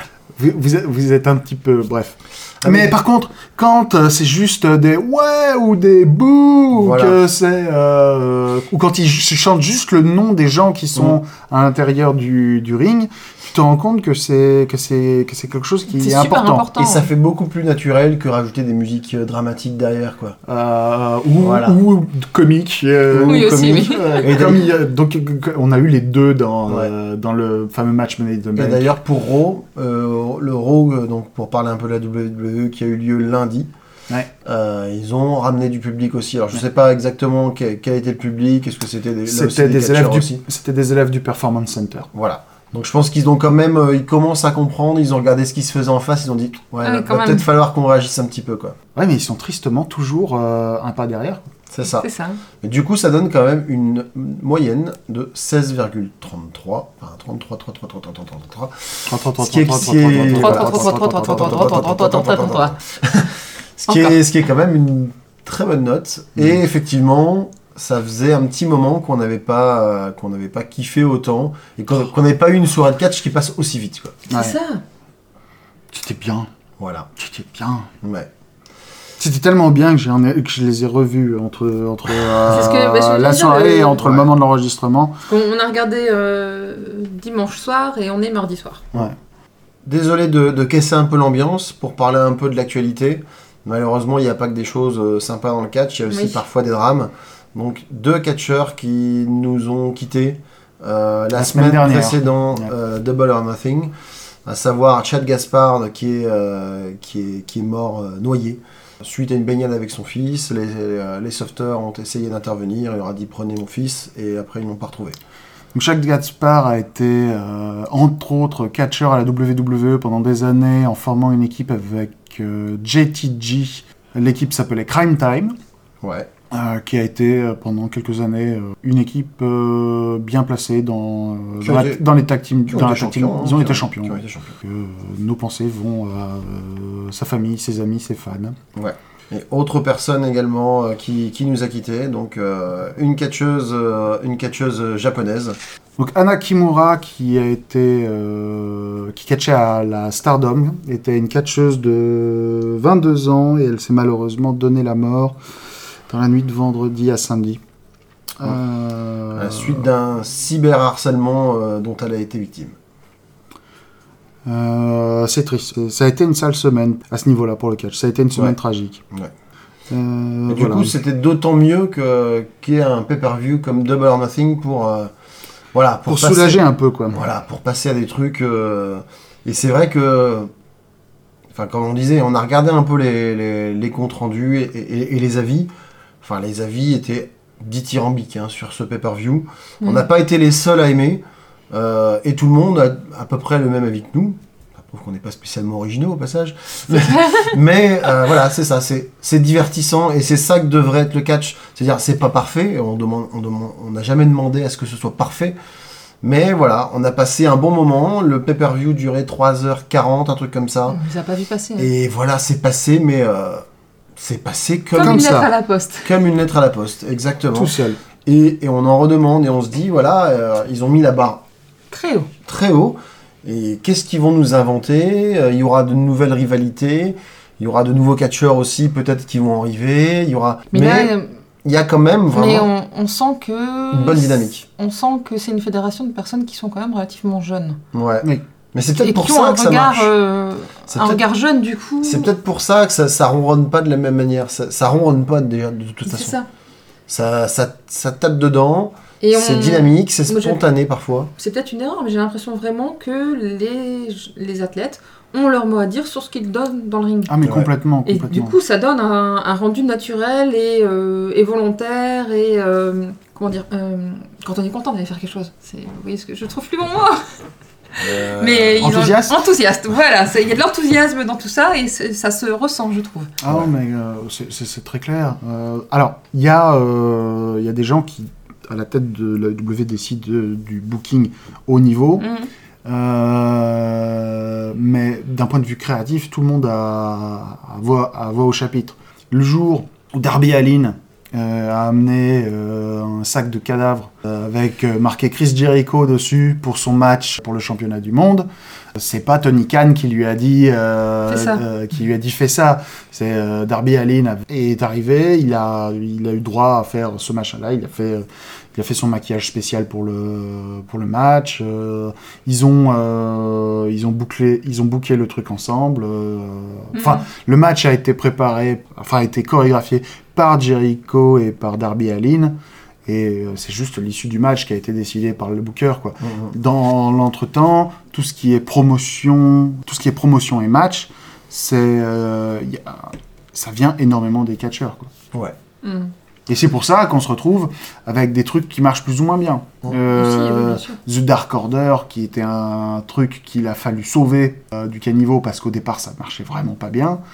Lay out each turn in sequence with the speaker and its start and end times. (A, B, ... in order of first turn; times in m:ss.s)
0:00.4-0:16.7 A
0:02.6-0:02.9 B
0:06.7-0:07.2 B
0:15.9-0:17.1 C
0:16.8-0:20.4 B
0:20.5-0:29.0 A
0:21.4-0:21.8 B
0:23.1-0:24.7 B
0:23.2-0:24.5 C
0:28.6-0:33.7 B
0:34.4-0:40.4 B
0:39.3-0:42.1 A
0:42.1-0:48.8 B
0:46.8-0:47.5 C
0:49.0-0:51.4 A
0:51.7-0:52.1 B
0:51.8-0:52.4 C
0:52.6-1:14.2 B
0:59.1-1:01.9 A
1:00.3-1:02.7 C
1:03.9-1:04.2 C
1:14.3-1:14.8 C
1:14.3-1:14.6 A
1:15.9-1:16.5 A
1:16.8-1:17.1 B
1:17.2-1:17.9 A
1:18.0-1:18.3 B
1:19.2-1:25.2 A
1:22.5-1:24.2 C
1:25.3-1:28.9 C
1:29.9-1:43.9 B
1:36.1-1:36.4 C
1:41.3-1:42.7 A
1:44.5-1:55.2 B
1:55.7-2:05.6 A
2:06.0-2:06.3 B
2:06.5-2:18.6 A
2:11.6-2:12.0 B
2:12.7-2:14.6 B
2:18.8-2:25.6 B
2:26.0-2:35.4 A
2:36.1-2:37.6 A
2:38.4-2:39.8 A
2:39.4-2:42.8 B
2:44.5-2:49.0 A
2:49.9-2:51.0 A
2:50.5-2:55.1 B
2:55.7-2:56.6 B
2:56.1-2:57.2 A
2:57.1-3:00.5 B
3:01.5-3:05.7 B
3:06.2-3:25.6 B
3:17.0-3:17.5 C
3:26.2-3:31.0 B
3:30.9-3:31.9 C
3:31.8-3:33.6 B
3:34.2-3:35.4 B
3:34.9-3:36.1 C
3:35.0-3:35.5 A
3:36.0-3:37.7 B
3:37.5-3:38.0 A
3:38.2-3:41.4 B
3:41.9-3:42.3 C
3:42.5-3:51.1 B
3:50.7-3:51.3 C
3:51.6-3:52.7 B
3:52.3-3:57.8 C
3:53.9-3:54.6 B
3:57.9-4:00.1 B
3:59.0-4:02.3 C
4:00.9-4:01.2 B
4:02.0-4:06.4 B
4:06.1-4:06.5 C
4:07.1-4:11.3 B
4:09.2-4:10.6 C
4:11.4-4:17.4 C
4:17.3-4:18.6 A
4:17.4-4:17.7 B
4:18.1-4:27.3 C
4:28.0-4:33.3 C
4:28.0-4:28.9 B
4:28.8-4:29.4 A
4:33.4-4:42.2 A
4:42.2-4:42.5 C
4:42.8-5:22.5 A
5:01.3-5:01.6 C
5:17.0-5:17.2 C
5:23.1-5:35.1 A
5:26.2-5:26.5 B
5:35.8-5:36.1 C
5:36.5-5:47.2 A
5:40.1-5:41.0 C